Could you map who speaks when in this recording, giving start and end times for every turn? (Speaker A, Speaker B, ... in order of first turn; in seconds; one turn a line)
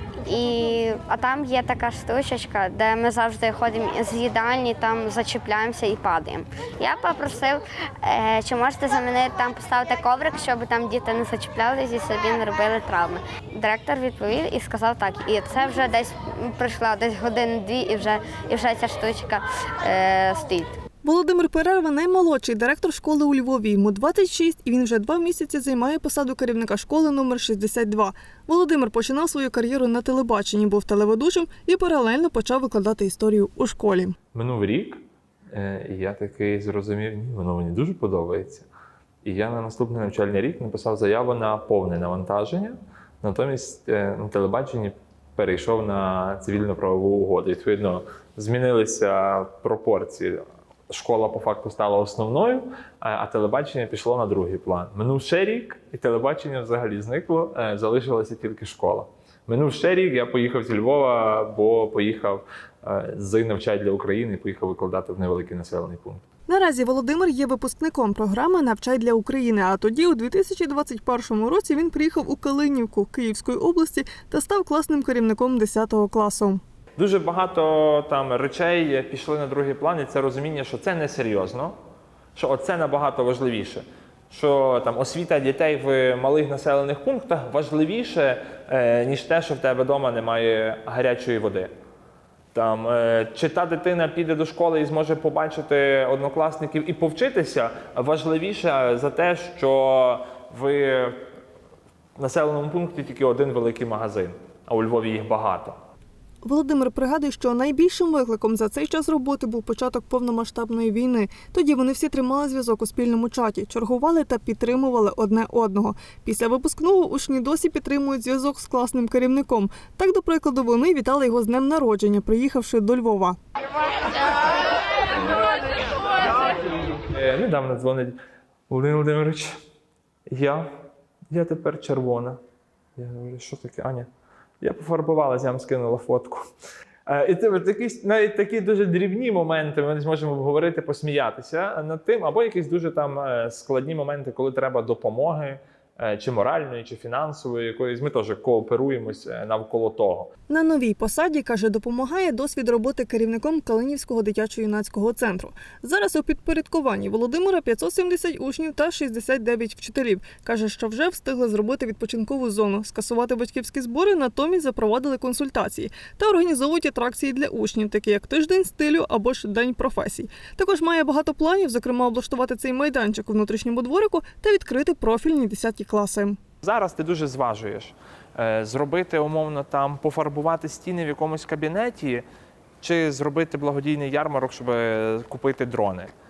Speaker A: 0.2-20.8
Speaker B: 21.0-34.2
Speaker C: 34.3-35.0
Speaker C: 35.5-38.7
Speaker C: 39.2-66.2
Speaker B: 66.5-76.6
Speaker C: 77.0-81.7
Speaker C: 82.3-91.7
Speaker C: 92.5-101.2
Speaker C: 102.2-105.8
Speaker B: 106.4-123.4
Speaker C: 127.1-128.1
Speaker C: 128.7-129.5
Speaker C: 130.3-130.7
Speaker C: 131.3-132.4
Speaker C: 133.0-134.1
Speaker C: 134.6-136.5
Speaker C: 137.1-150.3
Speaker B: 150.5-176.4
Speaker C: 176.6-182.2
Speaker C: 182.8-186.1